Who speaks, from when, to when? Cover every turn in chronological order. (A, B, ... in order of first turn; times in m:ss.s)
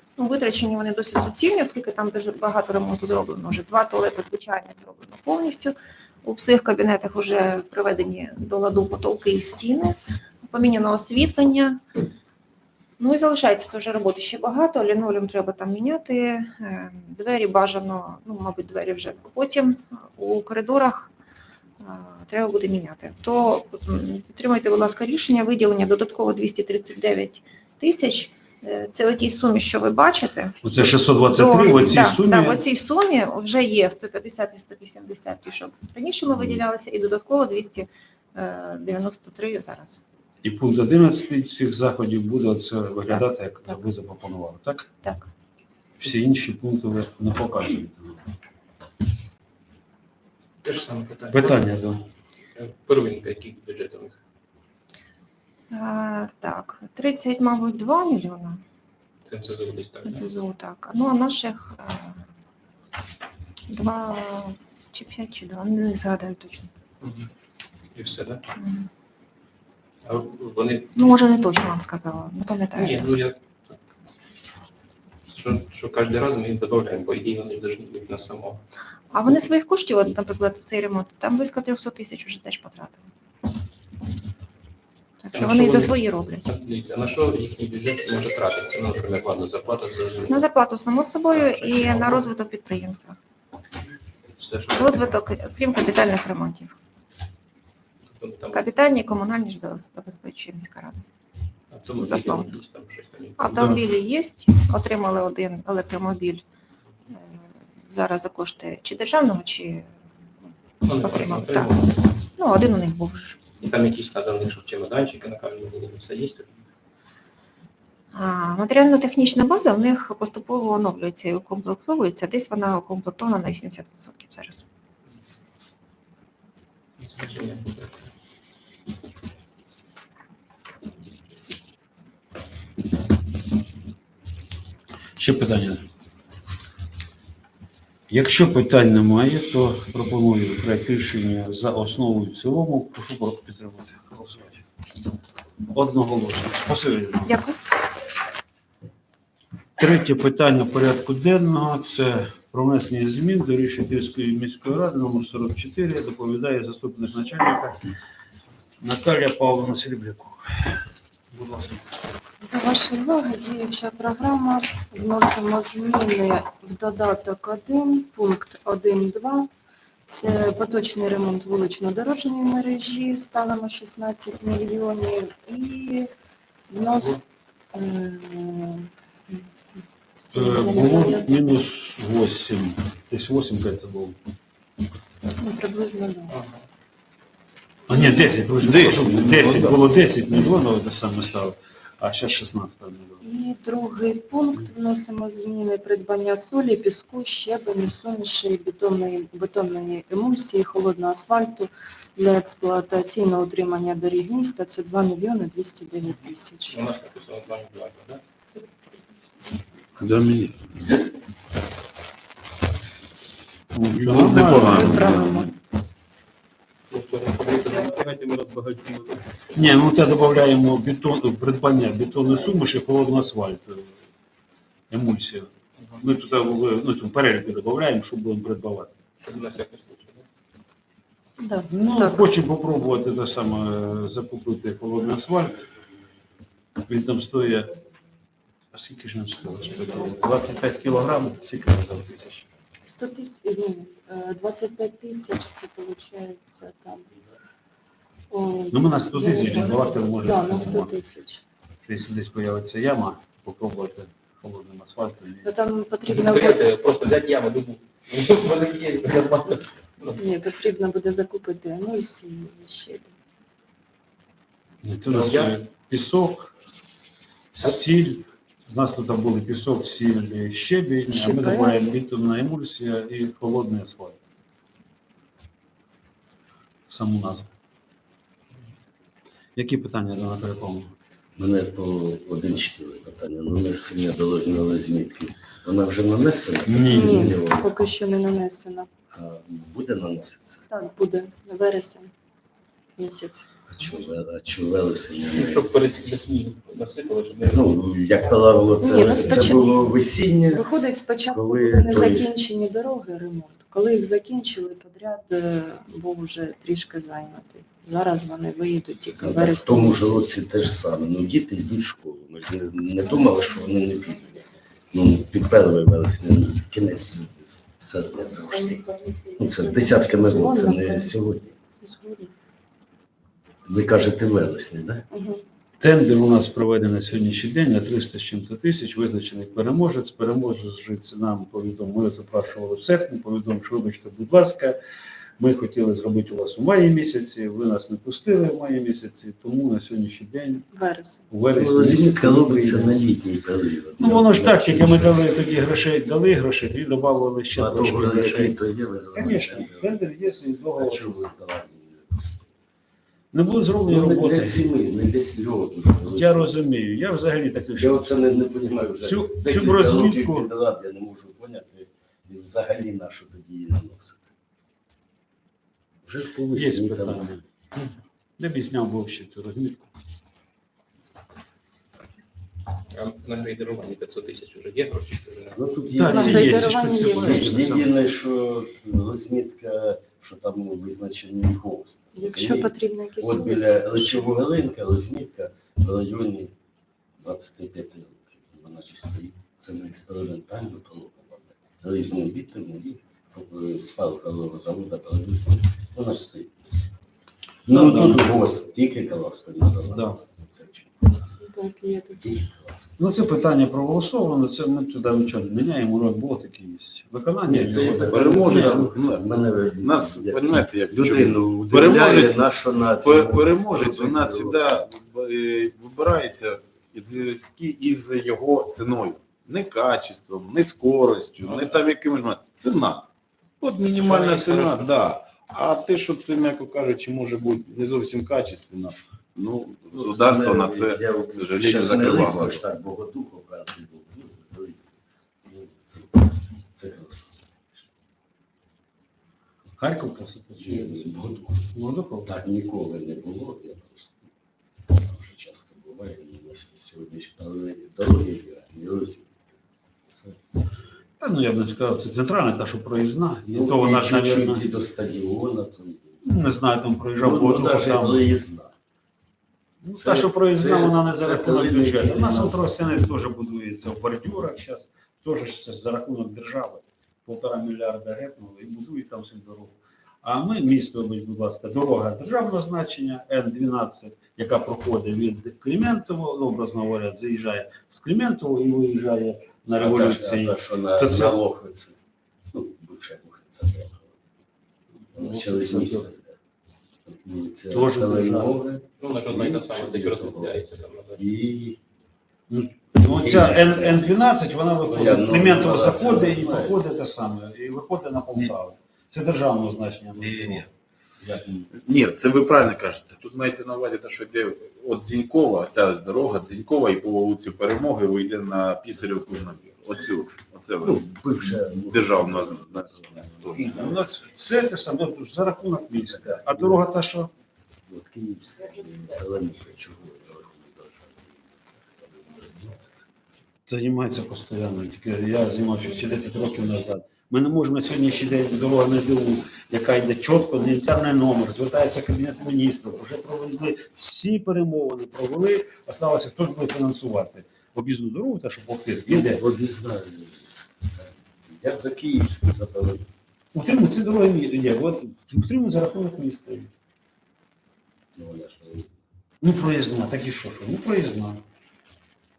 0:00.2-0:10.0 A
0:10.5-0:11.8 A
0:13.0-0:21.1 A
0:21.8-0:40.0 A
0:30.6-0:32.6 B
0:40.4-0:44.9 B
0:46.0-0:48.0 B
0:50.6-0:51.6 C
0:51.3-0:52.0 B
0:52.5-0:54.2 C
0:55.7-0:58.6 A
0:59.2-1:00.3 C
1:00.0-1:02.2 A
1:03.7-1:06.7 A
1:07.0-1:07.3 C
1:07.9-1:08.4 C
1:08.6-1:08.9 A
1:10.0-1:11.2 C
1:10.9-1:13.0 A
1:12.8-1:13.7 C
1:15.3-1:18.6 C
1:19.1-1:23.0 A
1:25.2-1:26.5 A
1:25.3-1:30.5 C
1:30.3-1:33.2 A
1:31.3-1:32.3 C
1:34.3-1:35.2 C
1:34.7-1:36.7 A
1:38.1-1:38.7 C
1:38.5-1:41.0 A
1:41.7-1:43.6 C
1:42.0-1:42.5 A
1:43.4-1:46.4 A
1:47.1-1:49.9 A
1:50.8-1:52.1 C
1:51.0-1:51.7 A
1:52.4-1:53.4 A
1:53.5-1:56.5 C
1:58.1-2:04.6 A
2:07.0-2:08.0 C
2:15.2-2:15.8 B
2:18.1-2:24.6 B
2:25.7-2:27.3 B
2:27.2-2:27.6 A
2:29.8-2:37.8 B
2:38.8-2:40.7 B
2:41.3-2:41.8 B
2:42.4-2:49.5 D
2:50.1-2:56.1 D
2:56.7-3:01.3 D
3:00.3-3:04.2 B
3:05.4-3:06.4 D
3:06.3-3:06.6 C
3:07.9-3:13.2 B
3:07.9-3:08.3 D
3:08.6-3:10.0 E
3:13.2-3:26.8 D
3:26.7-3:28.2 C
3:30.0-3:30.6 E
3:33.7-3:35.5 B
3:33.9-3:35.5 E
3:36.9-3:39.2 C
3:39.5-3:43.9 B
3:44.9-3:48.9 B
3:49.2-3:50.2 C
3:51.4-3:51.6 D
3:51.7-3:55.6 B
3:56.9-3:57.7 B
3:58.7-4:02.4 B
4:02.8-4:07.1 D
4:08.3-4:11.4 D
4:08.7-4:11.0 B
4:11.8-4:15.5 B
4:15.4-4:16.6 D
4:16.1-4:20.2 C
4:20.2-4:23.1 D
4:24.8-4:26.5 B
4:25.1-4:25.6 C
4:27.5-4:34.2 B
4:31.1-4:32.0 D
4:36.9-4:37.5 B
4:39.6-4:40.9 B
4:41.4-4:47.7 F
4:46.7-4:47.4 B
4:46.9-4:48.9 D
4:49.1-4:50.7 F
4:50.7-4:52.1 D
4:53.0-4:53.6 D
4:53.7-4:55.7 F
4:55.3-4:57.7 C
4:57.5-5:00.7 F
4:58.8-4:59.8 D
5:00.5-5:10.4 D
5:01.3-5:02.3 F
5:09.2-5:18.8 F
5:18.5-5:21.2 D
5:19.4-5:21.6 F
5:21.8-5:22.3 D
5:23.6-5:25.0 F
5:25.1-5:25.4 D
5:25.8-5:34.8 B
5:35.4-5:40.7 B
5:40.7-5:41.2 D
5:41.3-5:43.0 B
5:41.5-5:45.2 F
5:44.0-5:48.6 B
5:47.5-5:49.9 F
5:49.1-5:51.3 B
5:50.8-5:52.5 F
5:53.3-5:54.6 B
5:53.9-5:56.5 F
5:56.1-5:58.0 B
5:57.7-6:04.3 F
5:59.0-6:00.5 B
6:06.0-6:07.3 F
6:06.5-6:07.4 B
6:08.4-6:09.9 B
6:12.9-6:15.6 C
6:15.5-6:26.5 F
6:15.9-6:17.9 B
6:16.1-6:17.6 D
6:22.1-6:24.4 D
6:27.2-6:37.0 F
6:37.7-6:38.3 B
6:37.7-6:41.2 F
6:39.9-6:40.1 B
6:41.4-6:42.3 D
6:42.2-6:43.0 F
6:43.0-6:48.8 B
6:47.5-6:54.8 F
6:48.0-7:03.1 E
7:01.4-7:01.8 C
7:03.6-7:12.6 E
7:03.9-7:05.0 C
7:09.9-7:14.9 F
7:15.4-7:17.8 F
7:19.8-7:21.0 B
7:20.6-7:21.7 F
7:21.7-7:22.4 B
7:22.2-7:24.3 F
7:24.9-7:30.4 F
7:31.2-7:34.6 B
7:33.5-7:36.2 F
7:36.2-7:38.2 B
7:37.2-7:38.7 F
7:39.8-8:01.4 B
7:39.9-7:43.0 F
7:59.8-8:02.0 F
8:02.5-8:04.2 F
8:05.1-8:06.4 F
8:05.2-8:06.1 B
8:07.0-8:10.6 F
8:07.7-8:08.6 B
8:09.0-8:11.3 C
8:11.2-8:11.8 F
8:12.5-8:20.7 B
8:13.0-8:14.0 F
8:14.9-8:16.8 F
8:20.2-8:20.6 E
8:21.2-8:21.6 F
8:21.7-8:31.0 E
8:30.8-8:34.0 F
8:31.8-8:34.0 E
8:33.5-8:37.3 B
8:36.1-8:36.8 F
8:37.9-8:43.1 F
8:43.7-8:59.4 B
8:59.0-9:03.1 F
9:03.5-9:06.7 B
9:08.1-9:09.0 F
9:09.4-9:11.4 B